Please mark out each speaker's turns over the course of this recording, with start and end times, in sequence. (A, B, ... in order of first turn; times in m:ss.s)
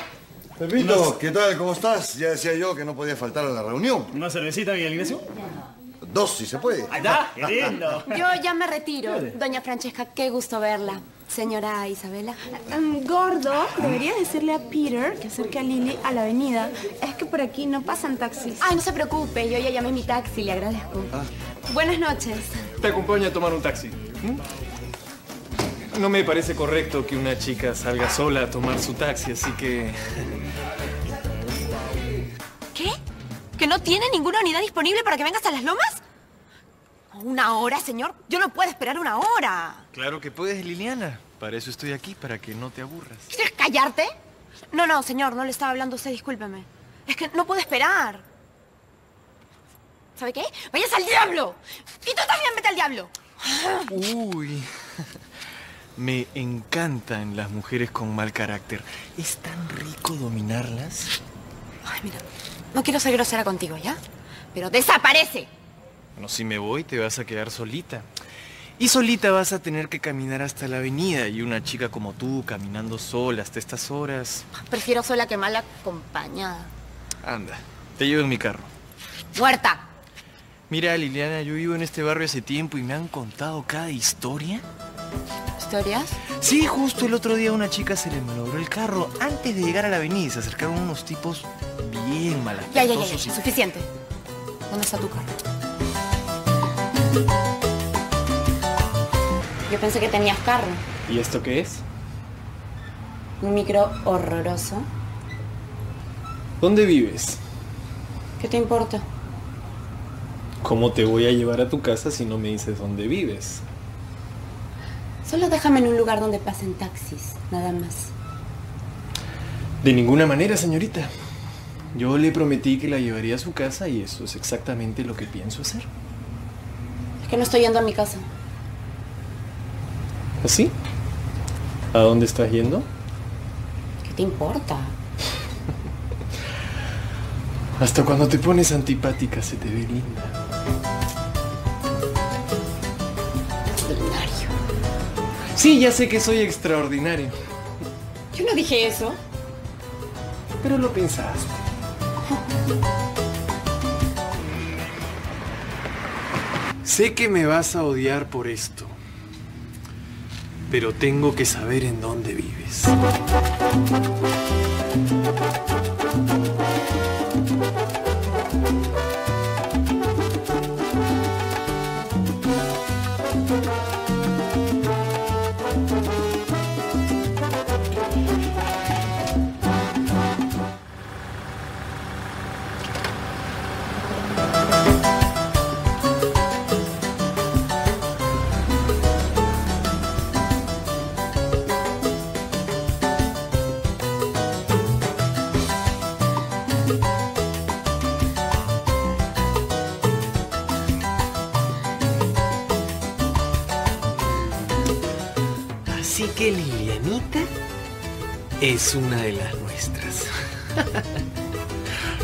0:00.6-0:04.1 A
0:00.8-0:01.1 B
0:04.1-0:05.2 B
0:06.0-0:07.1 A
0:07.0-0:08.1 B
0:08.1-0:12.8 C
0:12.7-0:18.6 D
0:13.7-0:14.0 C
0:18.6-0:21.1 C
0:21.7-0:22.6 C
0:22.7-0:24.4 E
0:25.9-0:30.2 E
0:33.6-0:36.0 C
0:37.1-0:39.9 C
0:39.9-0:43.3 E
0:43.3-0:44.1 C
0:44.7-0:48.2 C
0:50.2-0:53.9 C
0:53.9-0:54.7 E
0:56.0-1:01.2 E
1:01.9-1:04.0 C
1:04.5-1:05.5 C
1:06.2-1:08.1 E
1:08.8-1:14.4 E
1:14.5-1:16.7 C
1:17.2-1:18.7 E
1:19.3-1:19.8 C
1:20.7-1:24.6 E
1:25.6-1:26.2 C
1:26.4-1:33.4 E
1:32.7-1:33.9 C
1:34.7-1:35.3 C
1:39.7-1:40.8 C
1:41.1-1:41.8 E
1:43.4-1:44.9 C
1:46.6-1:47.4 E
1:48.4-1:49.0 C
1:50.6-1:53.6 E
1:55.2-1:58.1 C
1:59.8-2:01.1 E
2:01.9-2:05.9 E
2:07.2-2:08.3 C
2:10.4-2:10.7 E
2:11.9-2:12.9 E
2:14.0-2:15.0 C
2:17.8-2:20.4 E
2:23.8-2:24.5 C
2:25.6-2:27.4 E
2:28.3-2:29.2 C
2:30.6-2:31.6 E
2:36.8-2:39.0 E
2:40.7-2:43.0 E
3:25.9-3:27.5 E
3:28.6-3:31.1 E